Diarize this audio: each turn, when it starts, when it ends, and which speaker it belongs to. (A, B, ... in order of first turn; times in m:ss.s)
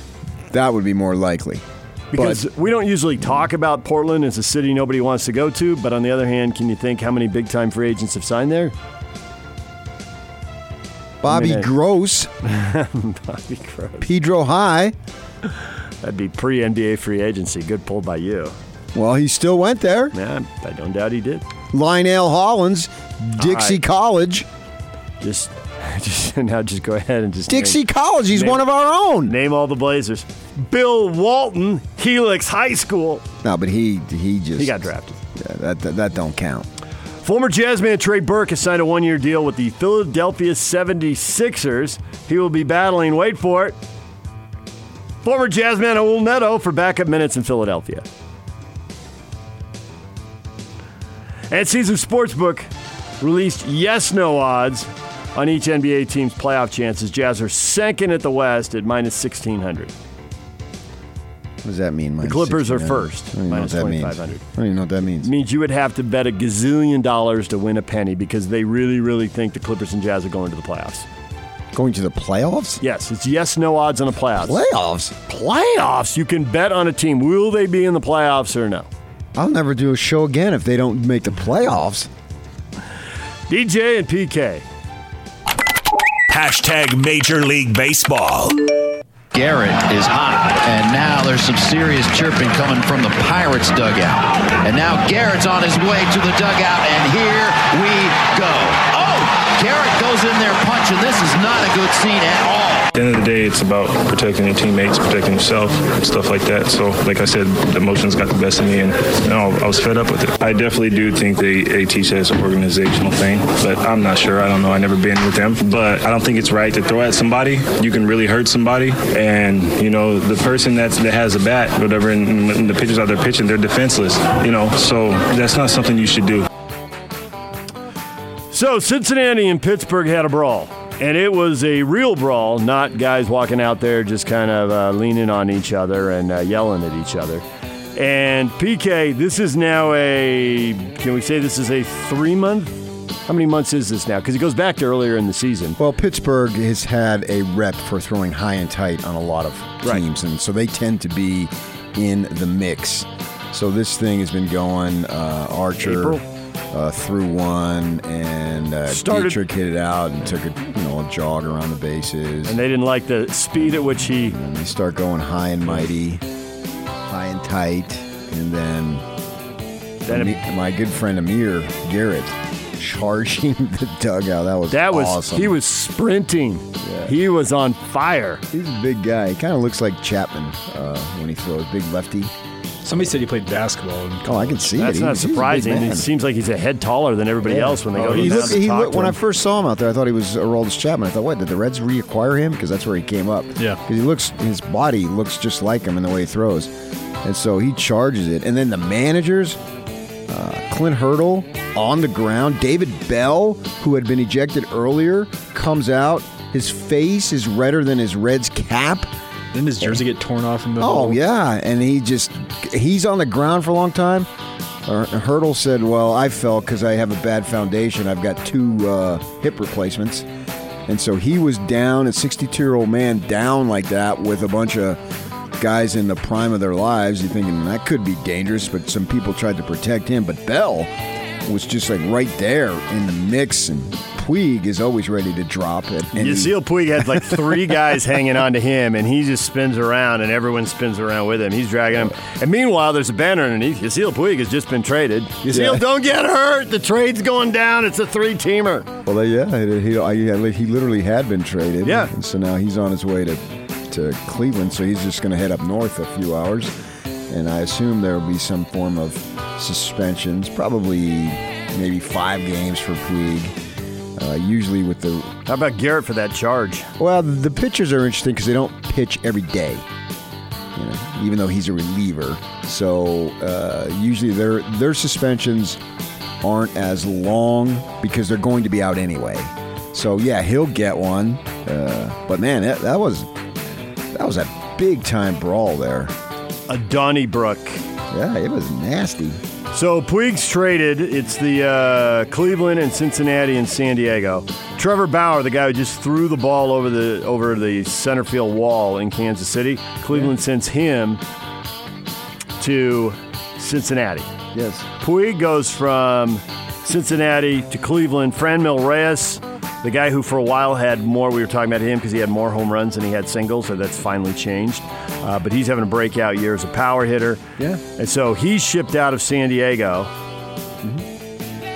0:00.5-0:02.4 A
0:02.1-0:08.7 B
0:11.2-0:12.3 A
0:11.2-0:11.7 B
0:12.4-0:14.1 B
0:14.0-0:15.0 A
0:16.0-0:18.5 B
0:18.9-0:20.1 A
0:20.1-0:21.4 B
0:21.7-0:24.5 A
0:23.4-0:23.8 B
0:25.2-0:28.7 B
0:27.5-0:29.3 A
0:29.2-0:33.2 B
0:33.4-0:36.7 A
0:34.6-0:35.2 B
0:37.2-0:43.8 B
0:45.2-0:48.0 B
0:51.5-0:52.7 B
0:53.2-0:59.9 B
1:01.6-1:05.3 A
1:02.2-1:04.4 B
1:05.2-1:11.1 B
1:11.7-1:12.8 A
1:12.8-1:14.6 B
1:14.4-1:15.2 A
1:15.3-1:18.9 B
1:19.4-1:22.1 A
1:23.5-1:24.6 B
1:26.3-1:28.6 C
1:29.3-1:42.9 D
1:42.9-2:06.5 E
2:08.5-2:17.4 B
2:18.0-2:25.8 B
2:25.8-2:42.6 A
2:35.8-2:36.2 B
2:38.9-2:39.4 B
2:42.4-2:44.4 B
2:43.6-2:46.2 A
2:47.0-2:49.0 A
2:50.0-2:50.4 B
2:50.1-2:55.5 A
2:54.7-2:58.4 B
2:56.8-2:57.1 A
2:58.5-3:02.3 A
3:02.8-3:04.7 F
3:04.2-3:06.1 A
3:04.8-3:09.2 B
3:07.4-3:19.6 A
3:08.0-3:08.5 F
3:20.3-3:29.1 A
3:29.5-3:31.2 F
3:30.8-3:34.3 A
3:34.8-3:40.3 A
3:40.9-3:45.0 A
3:45.6-3:50.9 A
3:51.4-3:56.6 A
3:56.1-4:08.9 B
3:57.2-3:57.5 A
4:05.5-4:05.8 A
4:09.0-4:16.7 A
4:11.8-4:12.1 B
4:17.3-4:23.6 A
4:24.2-4:25.4 A
4:25.4-4:26.9 B
4:27.0-4:29.8 A
4:30.7-4:35.8 A
4:36.4-4:43.3 A
4:44.1-4:46.1 A
4:46.7-4:47.8 B
4:48.1-4:49.4 A
4:49.7-5:01.2 B
5:02.6-5:04.3 B
5:04.5-5:04.9 A
5:05.0-5:20.1 B